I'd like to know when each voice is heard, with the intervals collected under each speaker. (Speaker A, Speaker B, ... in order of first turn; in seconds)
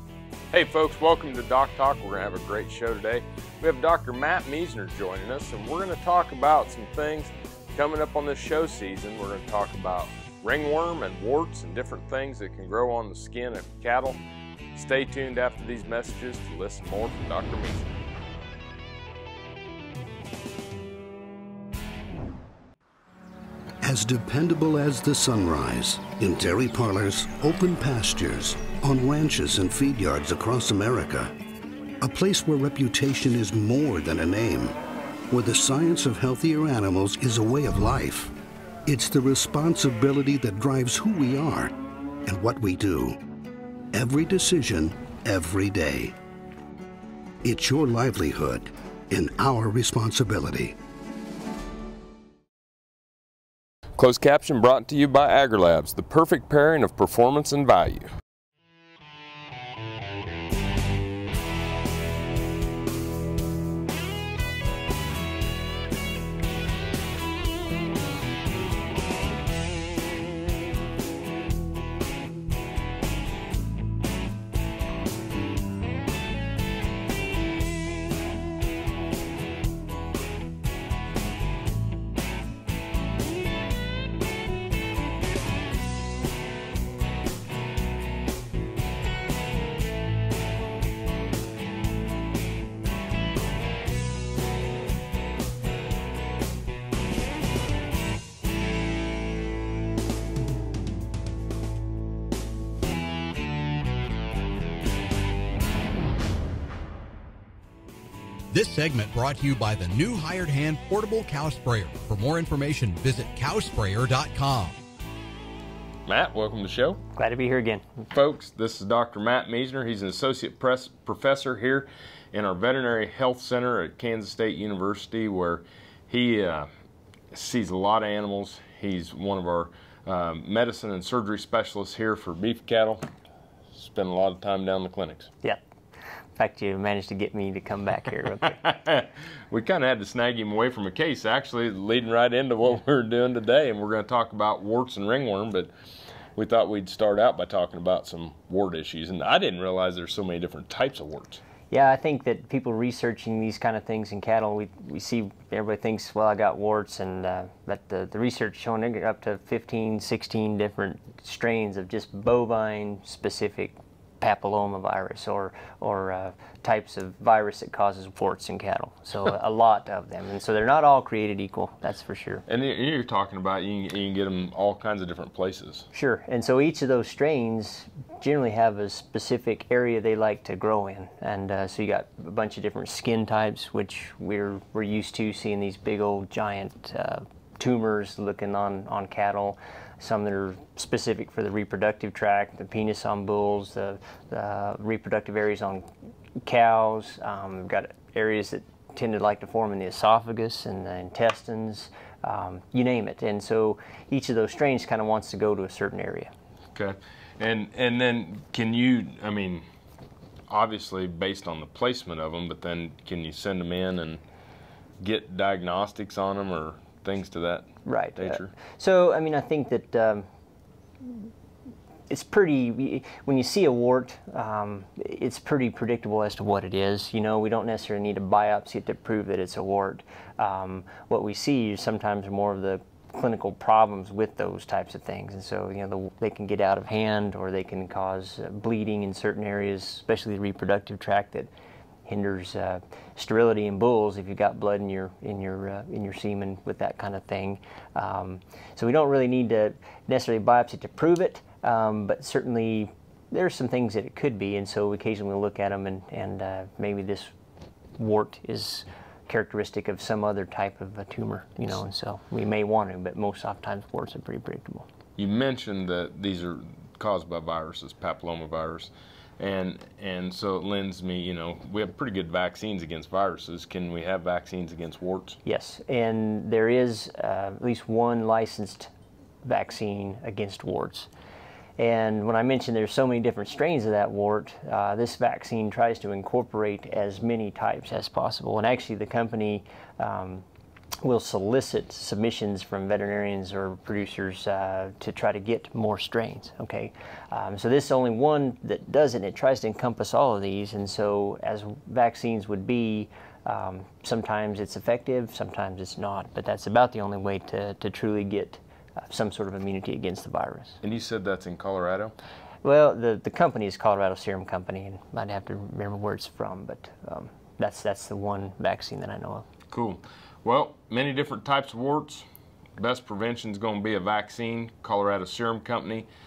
Speaker A: 0.5-14.2, 14.8-17.9, 54.0-58.1, 116.1-117.0, 118.1-126.7, 127.3-133.0, 133.7-135.3, 138.5-145.7, 146.4-151.4, 172.5-175.9, 206.8-209.7, 210.5-214.2, 215.0-218.5, 265.2-275.4, 310.8-312.1, 319.7-322.2, 322.8-326.1
Speaker B: 23.8-31.3, 32.0-34.8, 35.3-38.3, 38.9-41.7, 42.3-43.2, 43.9-46.1, 47.4-50.8
Speaker C: 108.5-114.8
Speaker D: 117.2-117.9, 136.4-138.6, 151.7-172.4, 175.9-195.9, 196.4-206.3, 217.9-220.3, 222.1-241.5, 242.1-257.3, 258.0-264.9, 275.4-278.9, 279.4-281.1, 281.8-290.4, 291.0-310.8, 312.6-319.5